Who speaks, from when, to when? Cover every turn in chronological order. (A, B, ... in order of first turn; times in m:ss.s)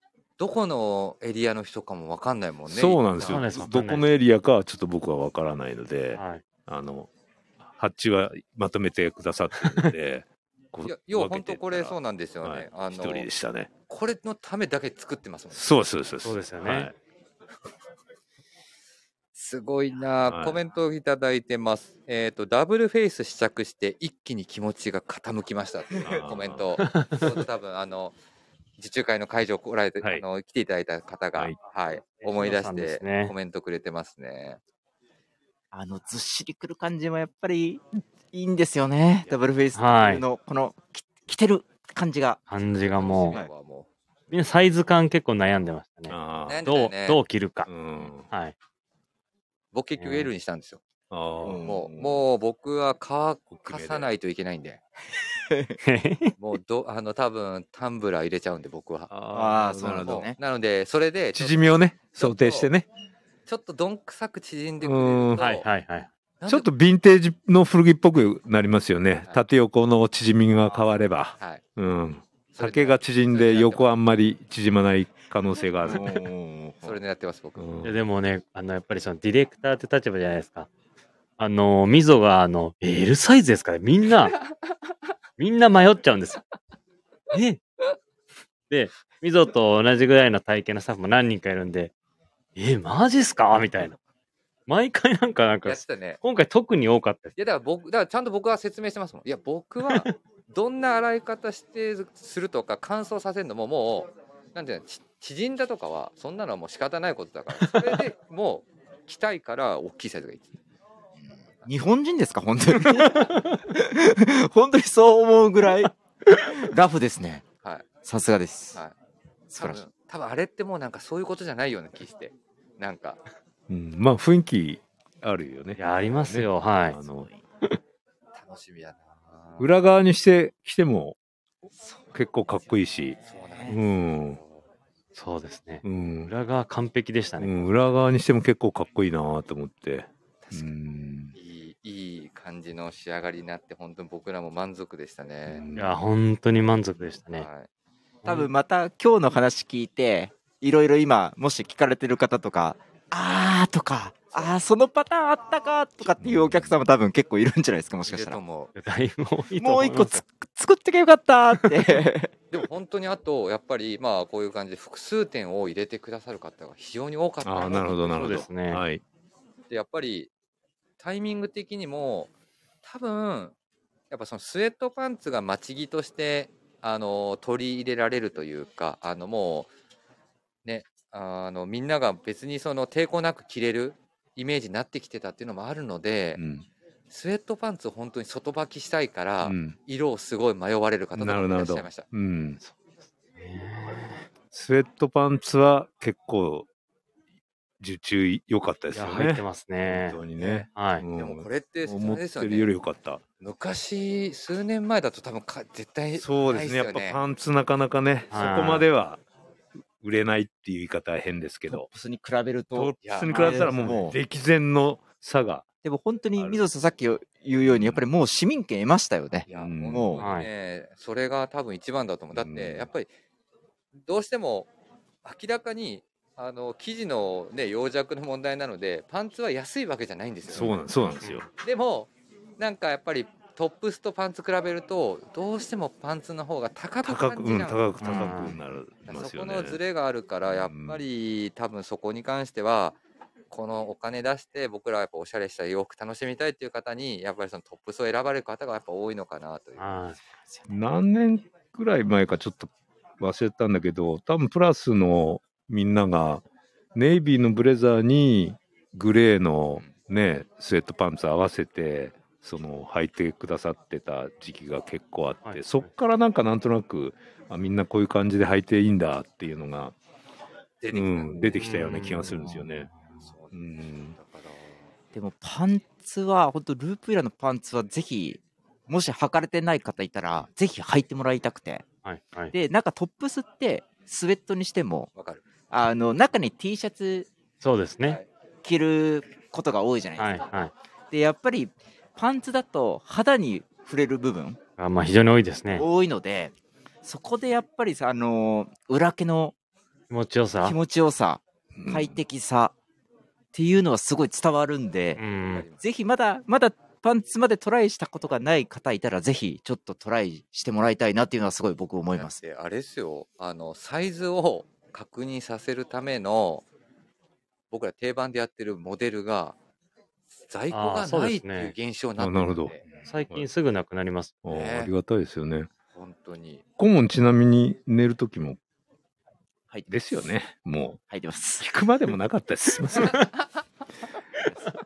0:00.4-0:03.4 A
0:02.7-0:07.1 B
0:03.2-0:04.0 C
0:06.1-0:06.4 C
0:07.6-0:13.7 B
0:09.6-0:09.9 C
0:10.8-0:13.3 A
0:13.9-0:15.7 A
0:15.5-0:16.9 B
0:16.2-0:16.9 C
0:19.3-0:28.2 A
0:20.3-0:20.6 B
0:26.0-0:26.8 B
0:26.8-0:27.3 C
0:28.8-0:34.6 A
0:32.2-0:33.3 C
0:35.7-0:42.4 D
0:39.7-0:40.2 C
0:42.5-0:43.4 C
0:42.6-0:43.9 A
0:44.3-0:47.7 C
0:46.1-0:46.6 B
0:46.4-0:47.2 A
0:47.7-0:48.3 B
0:49.7-0:50.8 A
0:50.0-0:50.3 C
0:51.1-0:52.2 B
0:51.4-0:51.8 D
0:51.6-0:54.8 A
0:53.5-0:54.1 B
0:55.5-0:55.8 D
0:55.8-0:56.4 C
0:56.4-0:59.1 A
0:59.1-1:00.3 B
0:59.3-1:00.4 D
1:00.0-1:02.7 A
1:01.3-1:02.9 B
1:03.5-1:05.6 A
1:04.8-1:05.5 B
1:05.4-1:06.1 C
1:06.4-1:06.7 A
1:06.5-1:16.1 B
1:12.5-1:13.9 A
1:15.8-1:17.0 D
1:16.8-1:17.8 A
1:17.6-1:18.0 B
1:17.8-1:20.7 C
1:21.4-1:24.4 C
1:25.4-1:26.5 C
1:27.3-1:27.6 C
1:28.7-1:31.9 C
1:32.6-1:34.0 C
1:34.7-1:37.3 C
1:35.6-1:36.2 A
1:37.4-1:50.6 A
1:39.8-1:40.1 C
1:47.6-1:48.0 C
1:51.6-1:57.4 D
1:52.8-1:53.3 C
1:58.0-1:58.8 D
1:59.5-1:59.8 D
1:59.6-2:03.2 A
2:03.7-2:07.3 B
2:05.8-2:07.0 C
2:07.2-2:07.4 D
2:08.3-2:09.7 A
2:09.6-2:11.2 B
2:12.1-2:14.4 B
2:13.2-2:13.8 D
2:13.2-2:14.6 A
2:15.1-2:17.7 C
2:15.8-2:16.3 B
2:17.4-2:21.3 B
2:20.4-2:20.7 A
2:21.3-2:25.6 A
2:25.5-2:26.0 B
2:25.7-2:27.5 C
2:27.3-2:27.7 A
2:28.2-2:28.5 C
2:28.2-2:38.4 D
2:36.2-2:36.8 B
2:38.1-2:38.7 A
2:38.7-2:40.2 C
2:39.6-2:42.3 D
2:41.6-2:42.0 C
2:42.5-2:48.4 A
2:47.4-2:49.0 B
2:48.1-2:48.8 C
2:49.7-2:50.3 A
2:51.0-2:52.3 A
2:52.8-2:53.5 A
2:54.1-2:59.7 A
3:00.6-3:06.4 A
3:06.4-3:06.6 B
3:07.1-3:12.0 A
3:09.4-3:09.8 B
3:11.2-3:12.6 B
3:13.4-3:14.2 C
3:14.5-3:16.7 B
3:17.8-3:23.2 B
3:18.9-3:20.2 C
3:20.4-3:20.6 A
3:20.7-3:21.0 C
3:21.2-3:22.7 A
3:23.4-3:27.2 A
3:26.2-3:29.2 B
3:28.3-3:28.9 C
3:30.0-3:31.9 B
3:31.7-3:34.2 D
3:32.7-3:35.6 B
3:33.0-3:33.3 A
3:33.3-3:34.0 C
3:35.8-3:40.2 D
3:36.4-3:36.6 B
3:37.6-3:38.1 B
3:39.5-3:43.1 A
3:39.5-3:40.2 B
3:40.2-3:40.5 C
3:42.3-3:42.9 B
3:44.0-3:44.7 A
3:45.2-3:50.8 A
3:50.5-3:51.5 B
3:51.2-3:51.5 C
3:51.6-3:58.5 A
3:57.0-3:59.8 B
3:58.0-3:58.6 C
3:59.0-4:03.0 A
4:00.4-4:01.0 B
4:03.5-4:10.0 A
4:09.8-4:10.2 C
4:10.7-4:16.4 B
4:16.9-4:30.0 B
4:25.4-4:25.8 C
4:30.8-4:32.2 A
4:30.9-4:32.9 B
4:31.6-4:32.8 C
4:33.2-4:34.9 A
4:33.5-4:34.2 B
4:35.1-4:41.8 D
4:42.0-4:42.5 C
4:42.5-4:45.1 D
4:45.1-4:45.4 A
4:45.7-4:47.3 D
4:47.6-4:48.2 C
4:48.6-4:50.4 D
4:50.2-4:50.7 C
4:51.1-4:54.6 D
4:54.8-4:55.9 C
4:55.7-4:59.5 D
5:00.1-5:00.8 C
5:00.6-5:02.7 D
5:01.7-5:02.2 B
5:03.5-5:05.2 D
5:05.2-5:05.7 C
5:05.5-5:05.8 A
5:05.8-5:12.4 D
5:12.1-5:16.6 A
5:17.7-5:19.6 A
5:20.4-5:22.9 A
5:20.7-5:21.7 C
5:22.2-5:22.8 B
5:23.0-5:24.4 C
5:24.4-5:25.7 B
5:24.5-5:24.9 A
5:25.9-5:26.6 A
5:26.8-5:28.6 B
5:29.9-5:31.0 B
5:31.1-5:31.7 D
5:31.6-5:33.3 B